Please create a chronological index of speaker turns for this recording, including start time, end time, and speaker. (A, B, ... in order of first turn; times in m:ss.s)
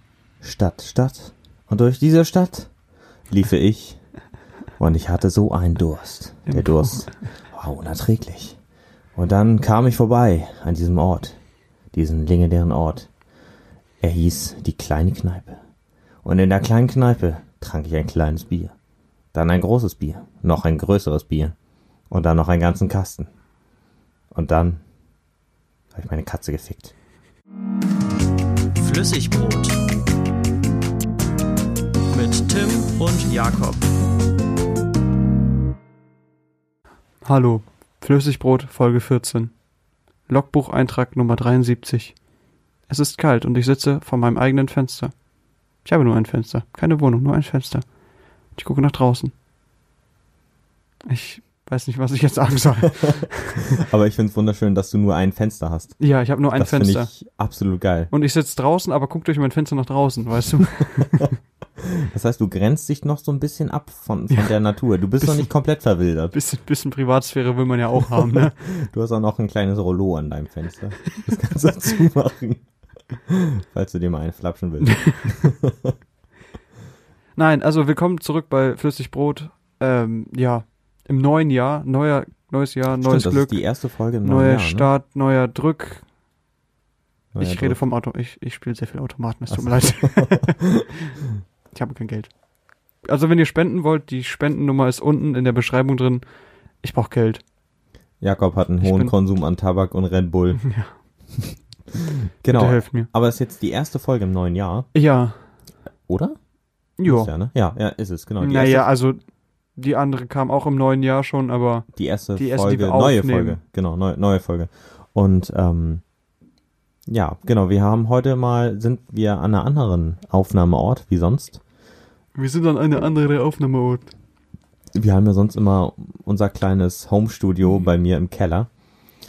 0:00.4-0:02.7 A
0:03.3-0:04.0 A
0:04.8-0:08.6 A
0:06.5-0:07.1 B
0:09.2-0:11.4 A
0:11.9-0:13.1 A
0:14.0-0:15.6 A
0:16.2-0:18.7 A
0:19.3-0:21.5 A
0:22.1-0:23.3 A
0:24.3-0:24.8 A
0:25.9-0:26.9 A
0:28.8-0:29.8 C
0:32.1-0:33.9 C
0:37.2-0:39.5 B
0:40.3-0:42.1 B
0:42.9-0:45.1 B
0:45.8-0:47.8 B
0:48.6-0:49.3 B
0:51.1-0:53.6 B
0:53.0-0:56.0 A
0:56.0-0:57.1 B
0:56.5-0:58.1 A
0:58.1-1:01.3 B
1:01.8-1:06.3 A
1:05.2-1:05.5 B
1:06.3-1:08.5 B
1:08.4-1:12.6 A
1:13.2-1:15.9 A
1:14.8-1:15.5 B
1:17.4-1:23.6 B
1:23.0-1:24.9 A
1:24.2-1:26.0 B
1:27.3-1:27.8 A
1:27.4-1:30.6 B
1:29.5-1:30.8 A
1:31.7-1:32.3 B
1:33.0-1:36.2 B
1:36.8-1:37.4 B
1:38.2-1:40.6 A
1:38.8-1:39.1 B
1:40.6-1:40.9 B
1:41.4-1:44.9 A
1:42.5-1:43.1 B
1:44.9-1:45.3 B
1:46.1-1:46.4 A
1:47.0-1:47.3 B
1:47.0-1:48.8 A
1:48.4-1:49.2 B
1:49.8-1:53.6 B
1:51.9-1:56.0 A
1:57.1-2:01.6 A
2:02.3-2:04.1 B
2:04.9-2:08.7 A